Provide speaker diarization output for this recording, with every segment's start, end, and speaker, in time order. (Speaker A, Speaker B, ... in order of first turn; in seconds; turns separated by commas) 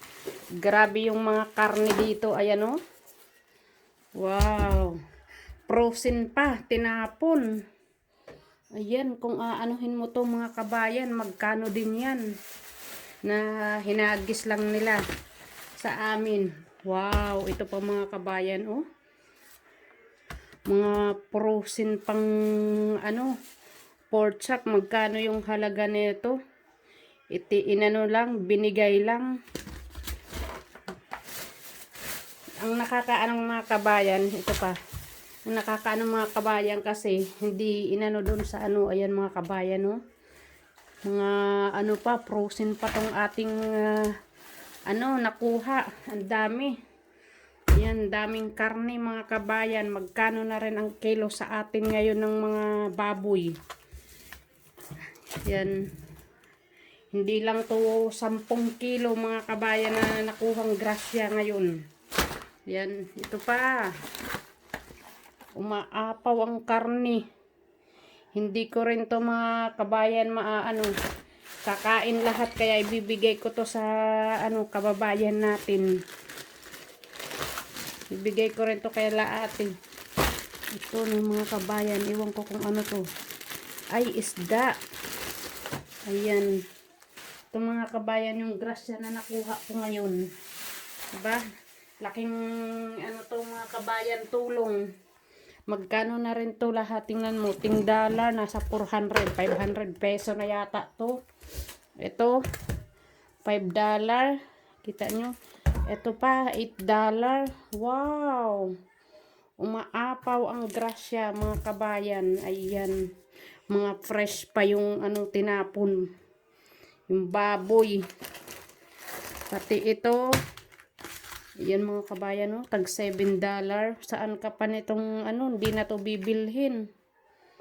Speaker A: 0.6-2.8, Speaker A: 4.2-5.0, Speaker A: 5.7-7.5, Speaker A: 8.8-12.2, Speaker A: 13.2-15.0, Speaker A: 15.8-18.8, Speaker A: 20.7-23.3, Speaker A: 24.1-26.4, Speaker A: 27.3-29.3, Speaker A: 32.6-34.8, Speaker A: 35.5-40.0, Speaker A: 41.1-44.1, Speaker A: 44.9-46.8, Speaker A: 47.8-53.6, Speaker A: 55.5-55.8, Speaker A: 57.1-61.7, Speaker A: 62.7-63.9, Speaker A: 65.6-67.2, Speaker A: 68.4-70.9, Speaker A: 71.7-75.9, Speaker A: 78.1-79.7, Speaker A: 80.8-83.1, Speaker A: 83.9-84.8, Speaker A: 86.1-86.6, Speaker A: 87.5-90.2, Speaker A: 91.2-91.4, Speaker A: 92.0-94.8, Speaker A: 95.7-101.2, Speaker A: 102.0-102.3, Speaker A: 103.5-104.3, Speaker A: 104.8-105.3, Speaker A: 105.9-108.7, Speaker A: 109.6-113.0, Speaker A: 113.7-116.0, Speaker A: 117.1-118.0, Speaker A: 119.5-120.2, Speaker A: 121.7-126.8